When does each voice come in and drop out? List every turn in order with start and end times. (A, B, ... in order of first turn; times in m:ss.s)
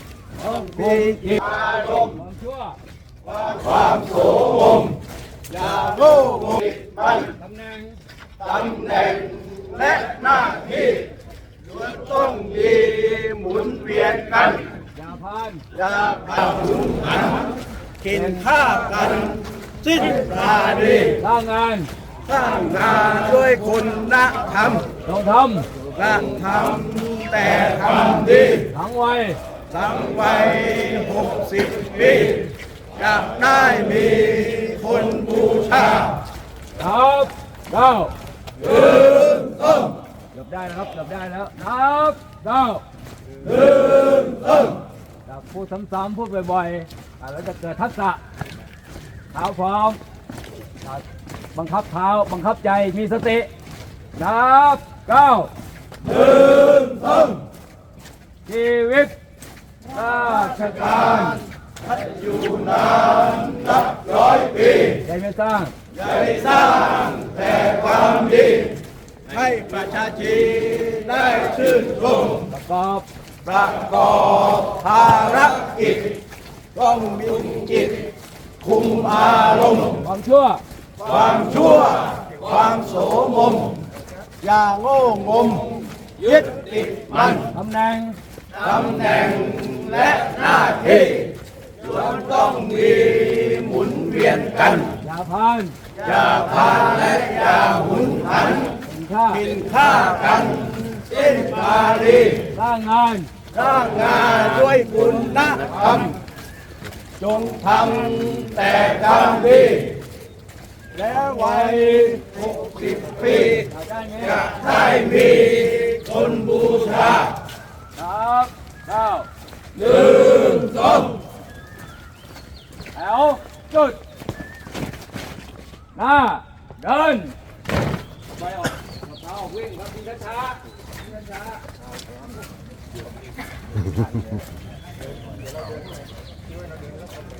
0:00.4-0:02.8 A
0:03.5-0:04.9 B
0:05.5-0:06.9 B
0:07.1-0:08.0 A
0:08.4-0:11.0 B
0:11.8-0:14.7 B
0:14.9-0:15.7 A
0:15.8-0:17.2 B
0:18.0-0:21.0 B
0:18.1-0:18.4 A
0:21.0-0:21.9 A
0:22.3-0:24.9 B
0:25.0-0:25.7 A
0:26.0-0:28.6 B
0:28.6-0:29.4 A
0:29.7-0:36.1 B
0:36.8-0:38.1 A
0:38.7-0:39.5 A
0:40.3-0:42.8 A
0:43.9-0:44.6 A
0:45.3-0:48.2 A
0:49.3-0:50.0 A
0:50.8-0:53.5 A
0:54.2-0:55.5 A
0:56.6-0:56.9 A
0:58.4-0:59.2 A
0:59.8-1:01.4 A
1:02.0-1:04.7 B
1:04.9-1:05.8 A
1:06.1-1:08.7 B
1:09.3-1:12.4 B
1:12.5-1:13.1 A
1:13.4-1:16.1 B
1:16.8-1:18.1 B
1:18.6-1:19.9 B
1:19.9-1:20.6 A
1:21.0-1:23.8 B
1:24.4-1:27.4 B
1:27.3-1:28.2 A
1:28.6-1:31.3 B
1:31.9-1:34.9 B
1:34.9-1:35.8 A
1:36.0-1:38.6 B
1:38.7-1:39.6 A
1:39.5-1:42.3 B
1:42.4-1:43.4 A
1:43.5-1:46.1 B
1:47.2-1:49.9 B
1:51.0-1:52.2 A
1:51.0-1:53.5 B
1:53.5-1:55.0 A
1:55.0-1:57.3 B
1:58.0-1:59.3 A
2:00.2-2:00.7 A
2:00.7-2:01.0 B
2:02.9-2:04.0 A
2:05.9-2:07.4 A
2:08.3-2:10.6 A